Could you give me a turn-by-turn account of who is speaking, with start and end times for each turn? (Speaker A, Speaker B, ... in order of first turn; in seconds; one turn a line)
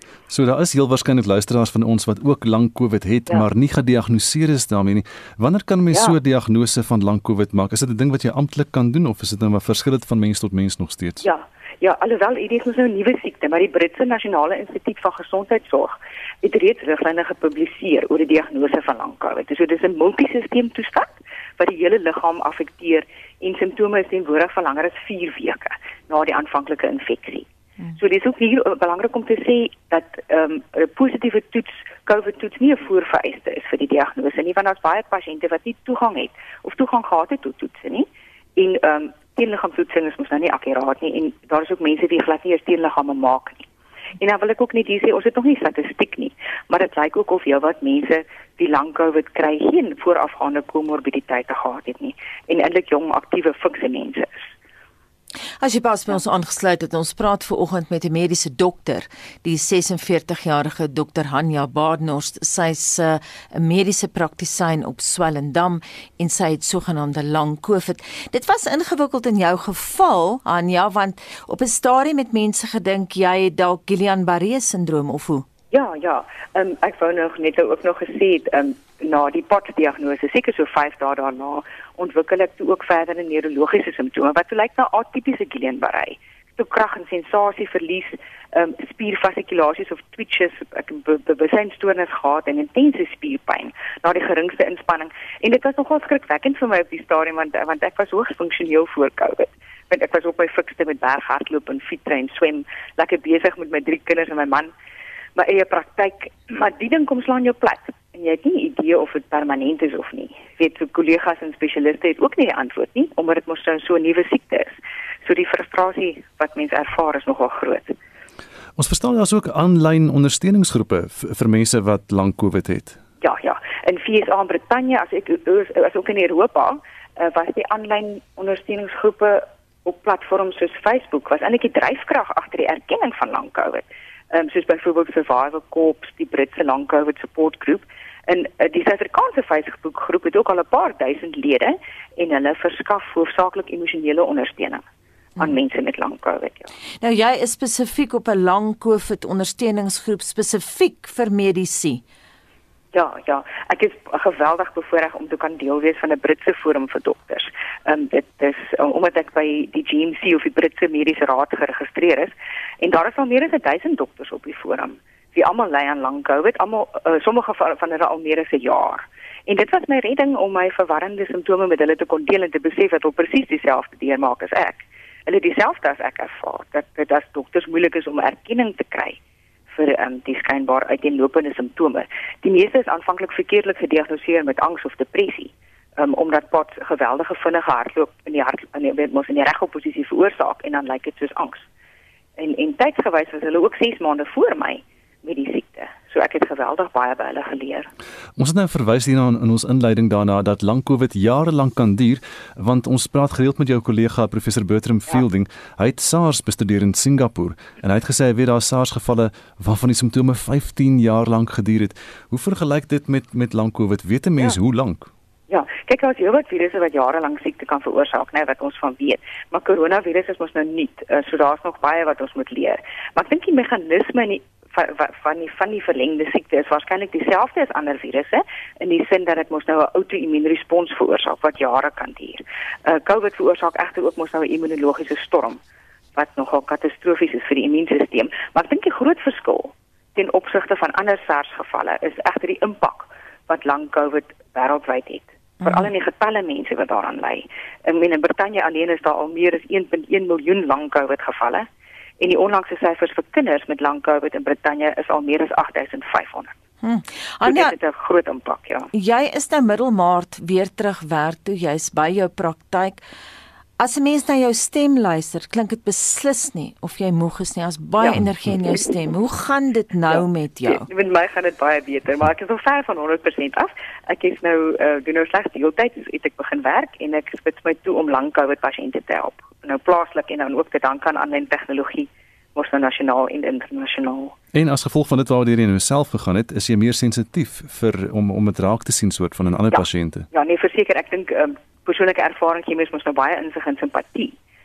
Speaker A: 0.3-11.2
Speaker B: 11.2-38.0
Speaker B: 38.6-43.6
Speaker B: 44.2-54.5
Speaker C: 55.6-75.5
Speaker B: 75.7-104.7
Speaker B: 105.3-117.9
Speaker A: 118.8-123.0
Speaker B: 123.2-144.8
Speaker B: 145.4-146.7
Speaker C: 147.0-152.0
Speaker B: 152.9-179.2
Speaker B: 179.7-191.7
Speaker B: 192.4-197.9
Speaker A: 198.4-215.1
Speaker B: 215.5-235.6
Speaker B: 236.1-251.7
Speaker C: 245.6-245.9
Speaker B: 252.2-256.5
Speaker C: 256.8-257.7
Speaker B: 257.4-258.9
Speaker C: 258.9-263.0
Speaker C: 263.8-270.9
Speaker B: 270.1-284.3
Speaker A: 284.5-290.2
Speaker B: 289.7-294.3